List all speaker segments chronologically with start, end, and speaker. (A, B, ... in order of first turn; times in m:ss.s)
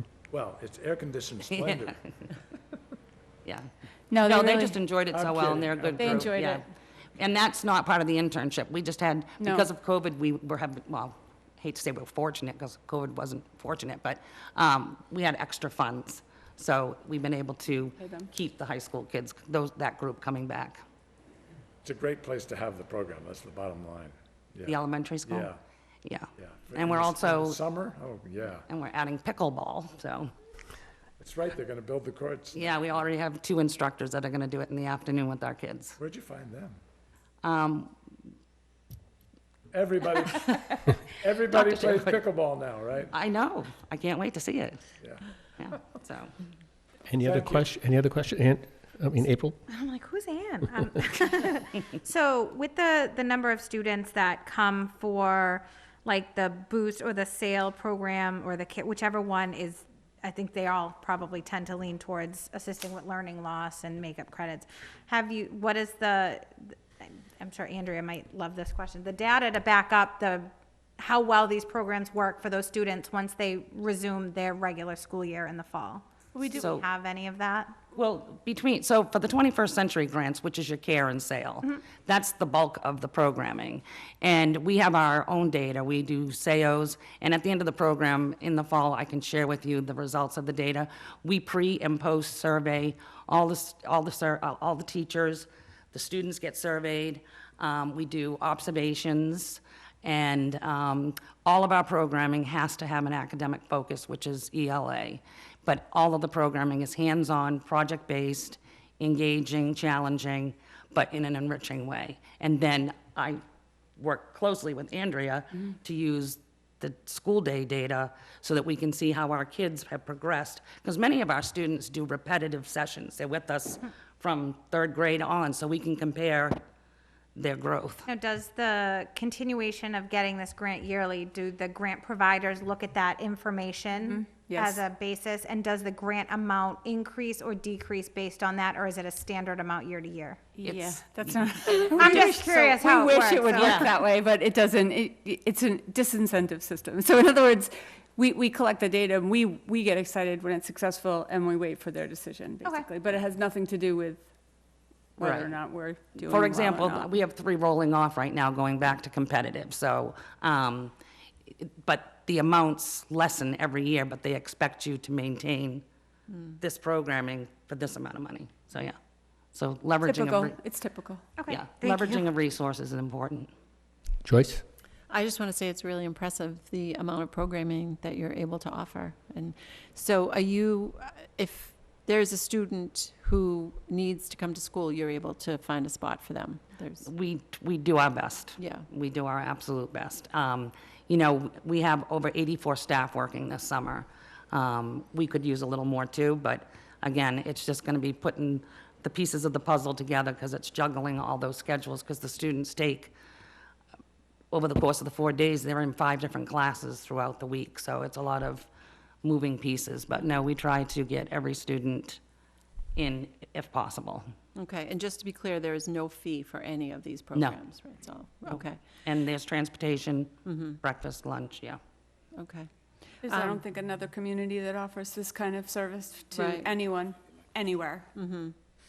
0:00.3-0:02.0 A
0:01.5-0:02.0 B
0:04.1-0:04.8 C
0:04.2-0:06.6 B
0:05.1-0:06.3 A
0:06.0-0:06.6 C
0:07.2-0:20.8 B
0:09.4-0:09.6 C
0:18.0-0:18.3 C
0:21.8-0:25.5 A
0:24.6-0:25.5 B
0:26.0-0:27.6 B
0:26.4-0:28.6 A
0:28.7-0:30.3 B
0:31.2-0:32.8 A
0:32.5-0:36.0 B
0:36.0-0:36.8 A
0:37.4-0:37.9 B
0:39.7-0:43.1 A
0:40.4-0:40.7 B
0:41.4-0:42.2 B
0:43.1-0:44.8 B
0:45.6-0:46.3 B
0:47.1-0:49.6 D
0:47.2-0:47.7 A
0:49.7-1:17.7 E
1:16.3-1:16.7 C
1:16.6-1:16.8 B
1:17.9-1:53.4 B
1:54.0-2:06.6 B
2:07.4-2:08.0 B
2:08.1-2:20.4 E
2:14.1-2:14.8 C
2:20.5-2:34.3 C
2:20.6-2:21.4 B
2:21.9-2:23.9 E
2:23.6-2:23.9 B
2:35.2-2:37.1 C
2:35.2-2:35.5 B
2:36.2-2:40.9 B
2:41.6-2:45.8 B
2:46.6-2:49.0 B
2:49.5-2:50.5 B
2:50.0-2:51.2 C
2:51.4-2:52.2 E
2:51.5-2:53.5 B
2:54.2-2:54.6 D
2:55.1-3:07.1 F
3:07.0-3:23.1 B
3:08.6-3:08.8 F
3:24.5-3:28.7 B
3:29.2-3:32.2 B
3:33.0-3:34.3 B
3:34.5-3:38.8 F
3:38.5-3:41.8 B
3:40.4-3:40.8 F
3:42.4-3:42.7 F
3:43.2-3:48.1 C
3:43.2-3:43.6 F
3:46.3-3:46.7 F
3:48.1-3:48.5 F